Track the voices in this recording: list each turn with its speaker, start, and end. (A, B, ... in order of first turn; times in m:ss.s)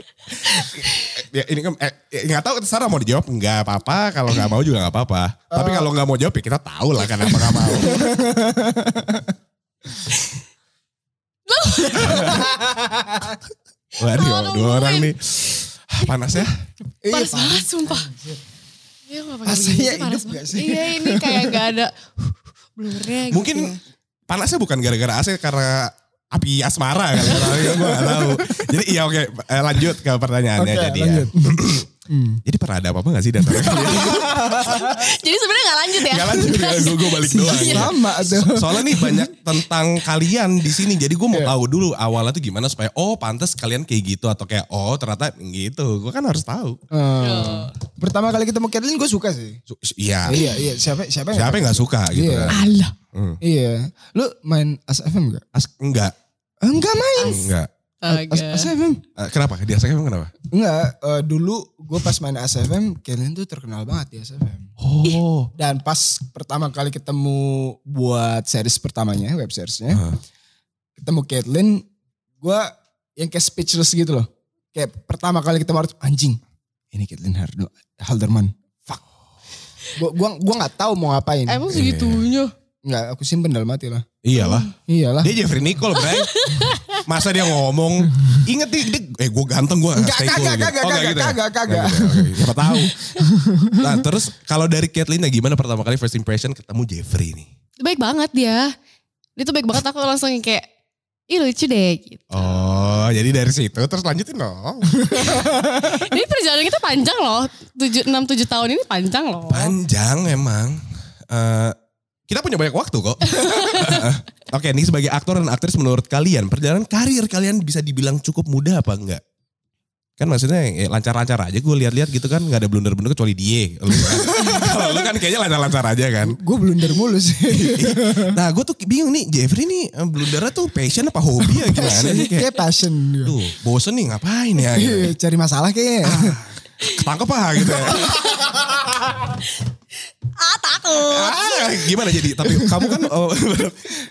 0:00.3-0:08.1 A
0:05.5-0:05.9 B
0:07.6-0:09.4 B
0:11.5-0:12.5 C
0:11.8-0:13.4 B
0:12.0-0:12.4 A
0:14.0-0:16.6 A
0:14.1-0:16.4 C
0:17.0-0:18.4 B
0:17.1-0:18.1 C
0:19.1-0:23.8 C
0:19.4-0:21.7 B
0:23.3-0:23.8 A
0:24.3-0:31.9 A
0:27.3-0:28.7 B
0:30.6-0:32.4 B
0:32.5-0:34.8 A
0:33.5-0:38.0 C
0:33.7-0:35.1 B
0:36.0-0:46.8 A
0:37.3-0:39.3 B
0:46.9-0:49.6 B
0:47.2-0:47.8 C
0:49.7-0:50.5 A
0:50.2-0:52.6 B
0:51.3-0:52.6 A
0:52.5-0:52.9 C
0:53.1-0:53.4 A
0:53.4-0:55.4 B
0:55.5-0:56.1 A
0:56.6-0:57.5 B
0:57.2-0:58.7 C
0:57.2-0:57.7 A
0:58.1-0:59.0 B
0:59.2-1:00.3 A
1:00.5-1:04.7 B
1:04.8-1:05.5 A
1:05.5-1:10.0 B
1:09.9-1:10.2 A
1:11.0-1:11.9 B
1:12.4-1:16.4 B
1:16.9-1:18.5 B
1:20.0-1:21.7 B
1:21.5-1:22.5 C
1:21.7-1:22.3 A
1:22.8-1:24.1 B
1:24.2-1:24.7 A
1:24.4-1:24.7 C
1:24.8-1:25.4 B
1:25.2-1:33.0 A
1:26.0-1:27.1 C
1:30.0-1:34.0 B
1:33.8-1:37.5 A
1:37.8-1:38.7 C
1:39.4-1:40.7 C
1:41.3-1:42.7 C
1:42.3-1:45.1 A
1:45.0-1:46.1 B
1:45.1-1:49.8 C
1:49.5-1:51.8 A
1:52.3-1:59.2 A
1:53.3-1:54.0 C
2:00.2-2:06.4 A
2:03.9-2:05.1 B
2:06.2-2:08.4 B
2:07.5-2:12.5 A
2:11.4-2:13.4 B
2:13.2-2:15.2 A
2:14.7-2:16.4 B
2:16.0-2:18.4 A
2:17.9-2:18.9 B
2:18.1-2:18.6 C
2:20.3-2:22.0 C
2:21.0-2:23.9 A
2:22.4-2:23.1 B